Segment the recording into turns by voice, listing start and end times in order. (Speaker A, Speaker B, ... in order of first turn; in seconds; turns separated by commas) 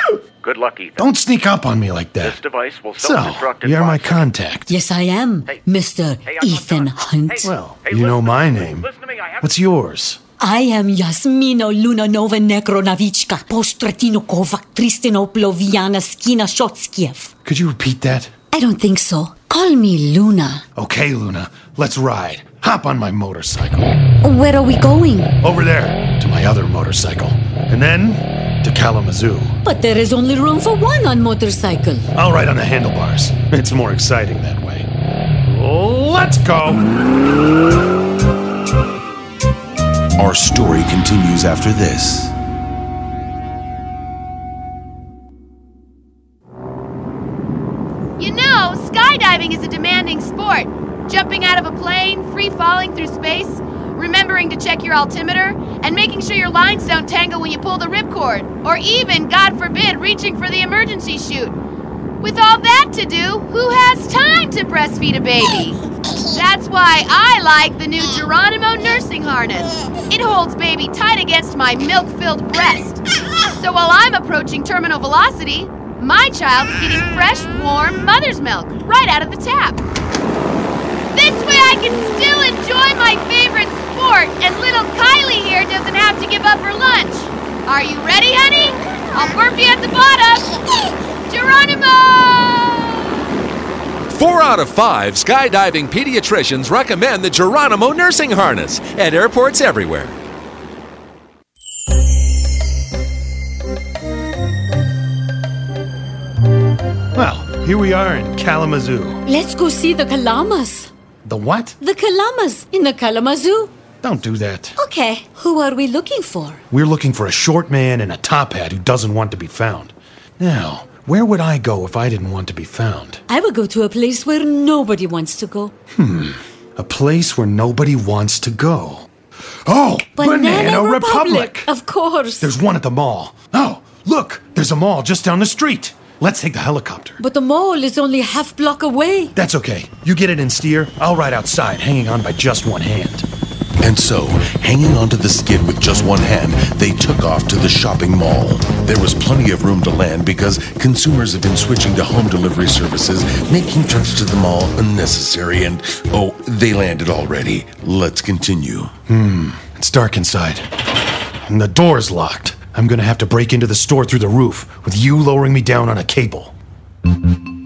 Speaker A: 0.4-1.0, Speaker B: 1.0-2.4, Speaker A: 2.2-4.3, Speaker B: 3.0-4.7, Speaker C: 4.7-7.5, Speaker A: 6.2-9.4, Speaker B: 7.4-8.9, Speaker B: 9.4-10.2, Speaker C: 10.4-17.3, Speaker B: 17.4-18.3, Speaker C: 18.5-20.6, Speaker B: 20.8-23.9, Speaker C: 24.2-25.3, Speaker B: 25.4-29.6, Speaker C: 29.6-32.1, Speaker B: 32.1-34.9, Speaker B: 35.4-36.9, Speaker D: 40.2-42.3, Speaker E: 48.2-61.5, Speaker E: 62.2-65.8, Speaker E: 66.3-73.0, Speaker E: 73.5-79.8, Speaker E: 81.1-90.5, Speaker E: 91.3-92.9, Speaker F: 94.2-95.3, Speaker F: 96.0-100.1, Speaker B: 107.1-109.2, Speaker C: 109.2-110.9, Speaker B: 111.2-111.8, Speaker C: 111.8-113.7, Speaker B: 114.0-114.8, Speaker C: 114.8-116.6, Speaker B: 116.7-123.2, Speaker C: 123.3-125.7, Speaker B: 125.9-129.1, Speaker B: 129.7-131.7, Speaker C: 130.2-132.5, Speaker B: 132.4-137.2, Speaker C: 137.2-139.3, Speaker B: 139.3-143.2, Speaker D: 143.8-158.9, Speaker B: 159.1-160.7, Speaker B: 161.4-166.5